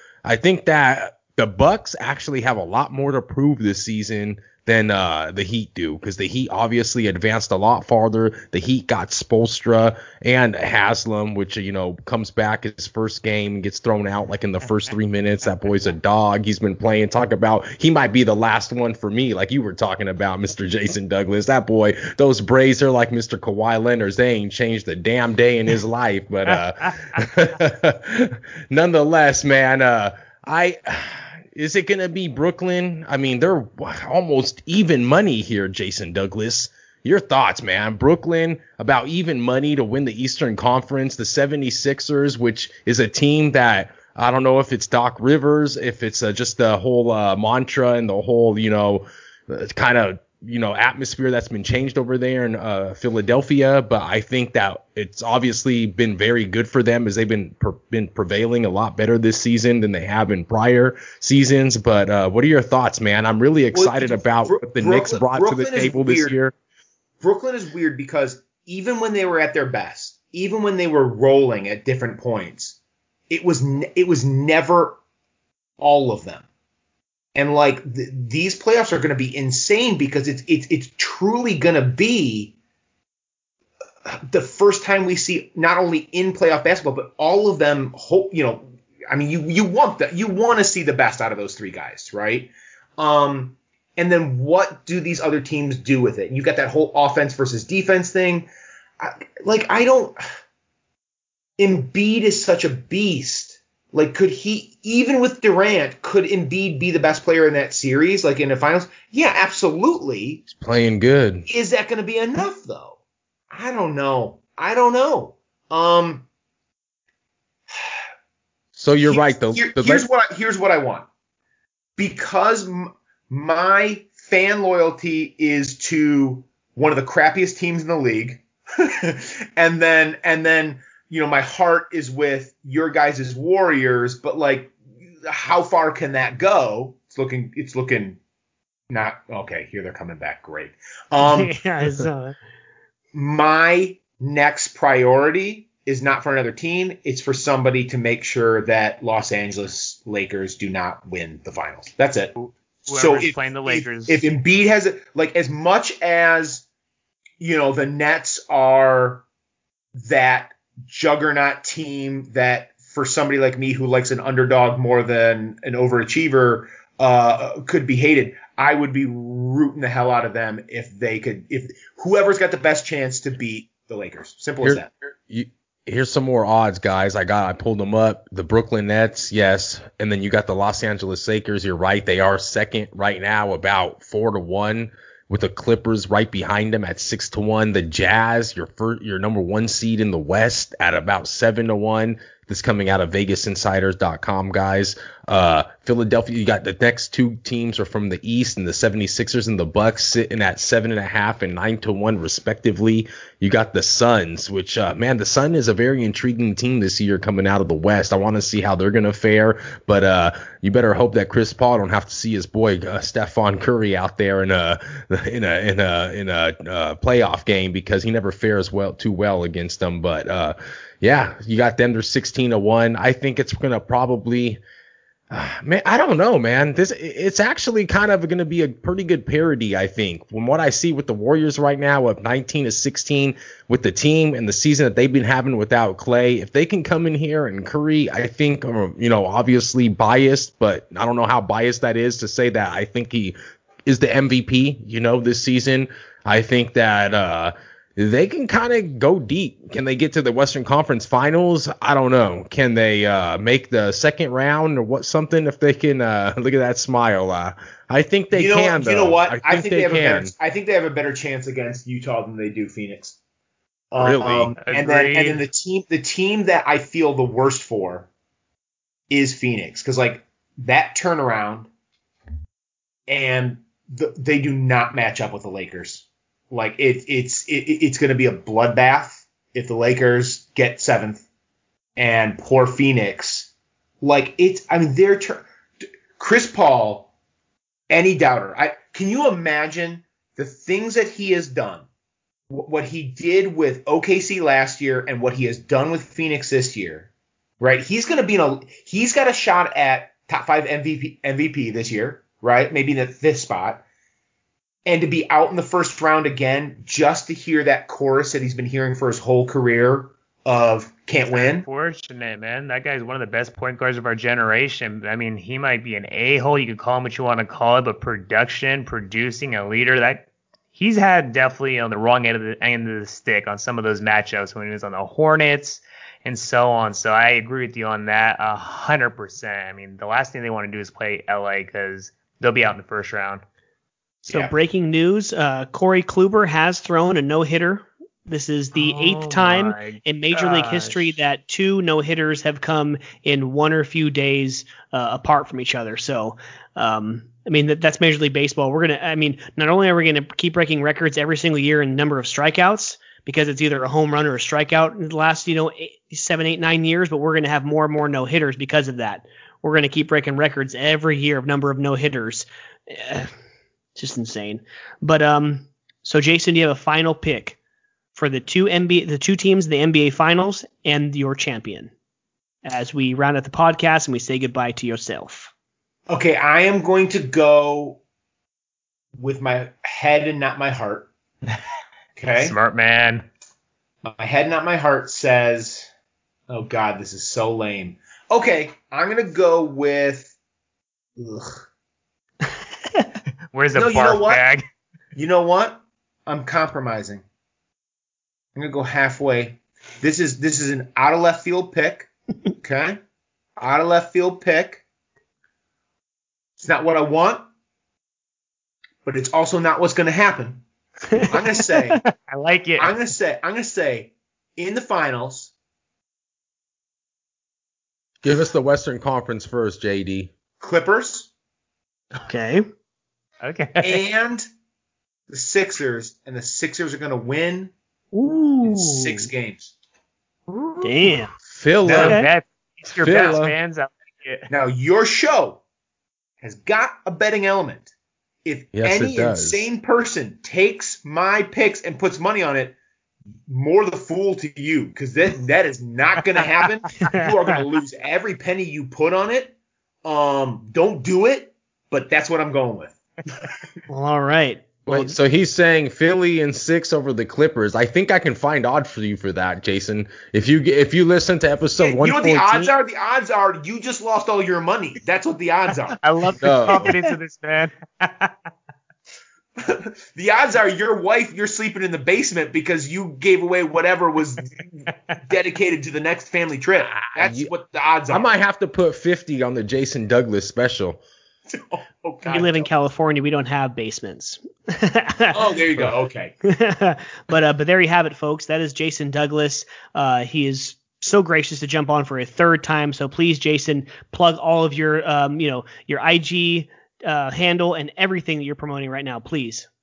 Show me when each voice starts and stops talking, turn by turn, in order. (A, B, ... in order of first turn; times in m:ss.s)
0:00.2-1:06.5 A
1:03.7-1:06.4 B
1:07.2-1:12.8 B
1:13.3-1:15.0 B
1:15.8-1:16.4 B
1:17.4-1:22.5 B
1:24.1-1:38.5 B
1:39.0-1:40.2 B
1:41.6-1:50.4 B
1:50.5-1:51.5 A
1:51.5-1:53.0 B
1:53.5-1:56.3 B
1:58.8-2:00.0 A
1:59.1-2:01.1 B
2:02.0-2:18.2 B
2:18.9-2:21.5 B
2:21.2-2:22.4 C
2:23.1-2:32.4 B
2:32.4-2:34.3 D
2:32.9-2:36.7 B
2:37.4-2:39.2 B
2:40.0-2:54.9 B
2:54.6-3:44.6 A
3:45.3-4:20.3 A
4:18.3-4:23.2 B
4:23.9-4:28.1 B
4:24.0-4:24.5 A
4:24.6-4:25.4 D
4:29.1-4:31.7 B
4:33.1-4:41.2 B
4:42.0-4:43.5 B
4:44.0-4:45.5 B
4:46.2-4:47.1 B
4:47.9-4:51.8 B
4:52.5-4:57.1 B
4:57.6-5:03.8 B
5:04.9-5:11.7 B
5:11.3-5:33.4 D
5:34.2-5:34.5 B
5:34.3-6:03.3 C
5:38.8-5:41.2 D
6:04.0-6:07.6 C
6:08.2-6:11.9 C
6:12.6-6:15.5 C
6:16.1-6:18.0 B
6:19.2-6:21.1 B
6:22.2-6:22.6 B
6:22.4-6:23.3 D
6:24.0-6:25.9 B
6:26.5-6:30.3 B
6:31.2-6:31.6 B
6:33.5-6:34.6 D
6:33.7-6:34.5 B
6:35.2-6:37.2 B
6:38.6-6:43.0 B
6:43.6-6:44.8 B
6:46.6-6:47.5 B
6:49.0-6:50.6 B
6:51.1-6:51.4 C
6:51.2-6:52.0 B
6:52.1-6:52.9 D
6:52.8-6:55.5 B
6:58.2-7:00.3 A
7:00.6-7:01.3 B
7:02.3-7:02.6 C
7:03.4-7:04.0 D
7:03.8-7:04.5 B
7:05.3-7:07.7 B
7:08.1-7:09.3 C
7:08.6-7:09.7 B
7:10.8-7:11.3 C
7:11.5-7:12.2 A
7:11.9-7:12.2 B
7:11.9-7:14.5 D
7:12.0-7:12.3 C
7:13.0-7:13.5 A
7:13.1-7:13.4 B
7:14.5-7:15.6 B
7:16.4-7:17.9 B
7:18.4-7:22.8 B
7:18.7-7:19.7 A
7:23.5-7:33.5 B
7:27.0-7:27.3 C
7:33.9-7:35.2 C
7:34.9-7:42.7 A
7:41.8-7:46.0 B
7:46.0-7:48.3 D
7:46.4-7:46.9 A
7:46.8-7:47.1 C
7:49.6-7:58.3 B
7:56.8-7:57.5 A
7:58.1-8:01.0 A
8:01.5-8:02.7 B
8:02.3-8:05.4 C
8:05.3-8:06.4 B
8:06.4-8:19.7 C